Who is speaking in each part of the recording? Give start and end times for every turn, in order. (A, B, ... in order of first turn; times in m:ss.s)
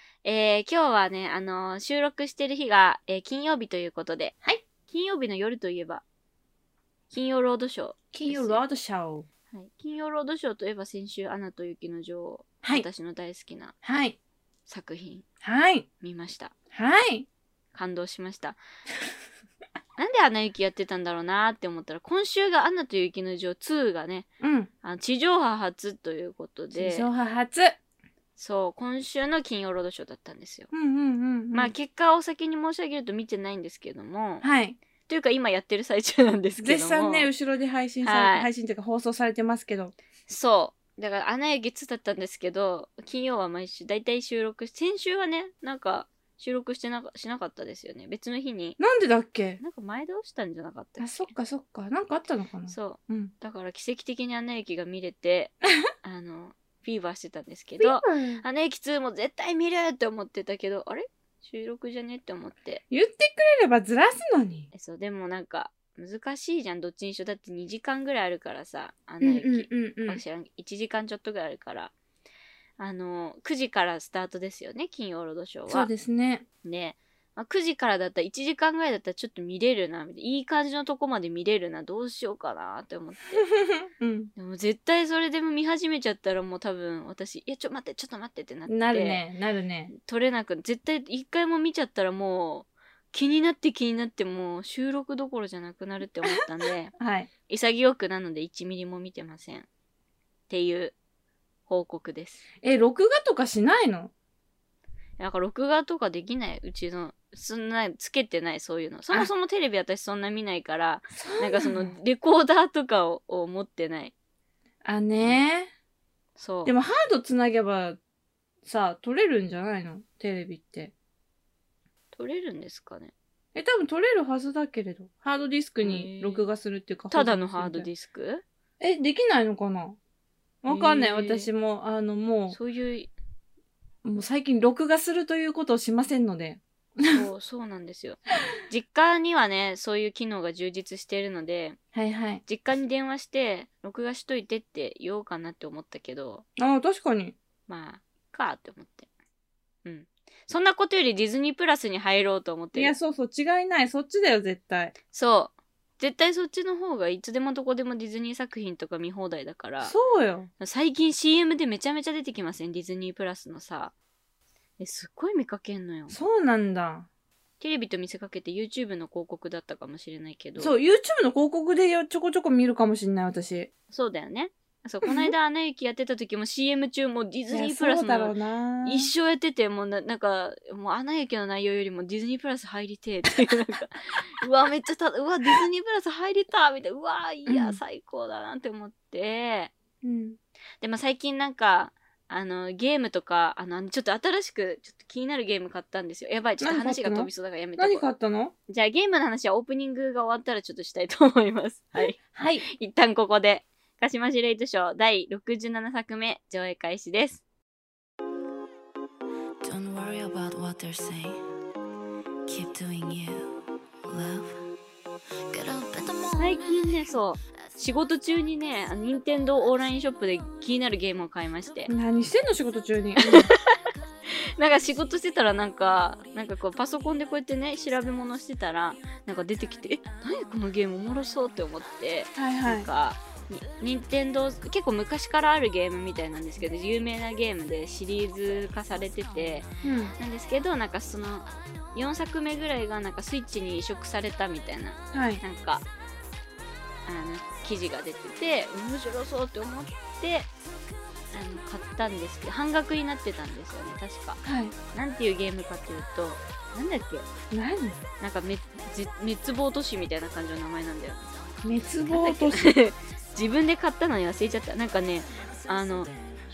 0:00.2-0:04.3 A
0:04.9-0:06.0 A
0:07.1-0:08.6 A
0:08.1-0:09.2 B
0:09.5-0:13.7 A
0:13.8-0:14.2 B
0:14.7-0:15.2 A
0:15.4-0:15.8 B
0:16.0-0:16.5 A
0:16.7-0:17.3 B
0:17.7-0:18.6 A
0:20.0-0:24.3 A
0:24.4-0:24.7 B
0:24.8-0:27.1 A
0:26.7-0:27.8 B
0:28.4-0:30.7 A
0:30.7-0:31.7 B
0:31.5-0:34.4 A
0:34.4-0:34.8 B
0:35.0-0:37.3 A
0:36.6-0:39.9 B
0:38.0-0:38.5 A
0:40.3-0:48.8 A
0:48.8-0:49.6 B
0:49.6-0:51.3 A
0:51.0-0:53.3 B
0:52.7-1:02.8 A
0:57.8-0:58.4 B
1:02.9-1:04.7 B
1:04.7-1:11.9 A
1:09.2-1:10.2 B
1:12.8-1:15.9 A
1:15.7-1:16.4 B
1:16.6-1:23.4 A
1:23.4-1:24.3 B
1:24.4-1:29.2 A
1:28.7-1:29.9 B
1:29.9-1:36.9 A
1:37.0-1:37.3 B
1:37.5-1:39.7 A
1:40.5-1:40.9 A
1:41.7-1:42.4 A
1:42.6-1:44.1 B
1:45.2-1:54.1 A
1:51.2-1:51.9 B
1:54.8-1:55.7 B
1:56.4-1:56.7 A
1:56.6-1:58.0 B
1:58.6-2:00.9 B
2:02.1-2:03.1 A
2:03.5-2:07.9 B
2:05.8-2:06.5 A
2:07.1-2:08.4 A
2:08.8-2:10.0 B
2:10.6-2:12.6 B
2:10.7-2:11.5 A
2:12.5-2:13.1 A
2:14.0-2:17.2 B
2:17.1-2:21.8 A
2:21.9-2:22.4 B
2:22.4-2:26.4 A
2:26.6-2:27.3 B
2:27.7-2:29.1 A
2:29.8-2:32.9 A
2:32.7-2:34.9 B
2:35.1-2:39.9 A
2:39.8-2:40.5 B
2:40.6-2:43.9 A
2:44.8-2:46.2 A
2:46.1-2:47.1 B
2:47.6-2:50.7 A
2:50.6-2:53.7 B
2:53.9-3:09.7 A
2:55.0-2:55.3 B
2:57.5-2:59.1 B
3:07.5-3:07.8 B
3:10.0-3:10.4 B
3:10.8-3:18.1 A
3:16.6-3:18.5 B
3:18.7-3:27.4 A
3:22.2-3:22.6 B
3:29.6-3:31.4 C
3:32.5-3:33.6 C
3:34.1-3:34.6 C
3:35.5-3:36.9 C
3:36.4-3:41.9 A
3:41.9-3:43.5 B
3:43.2-3:59.6 A
3:52.4-3:52.9 B
3:59.8-4:00.1 B
4:00.2-4:05.8 A
4:05.1-4:05.4 B
4:07.0-4:10.5 A
4:11.3-4:14.4 A
4:14.4-4:14.7 B
4:14.9-4:17.2 A
4:17.5-4:18.0 B
4:18.2-4:21.5 A
4:21.6-4:22.7 B
4:22.0-4:26.1 A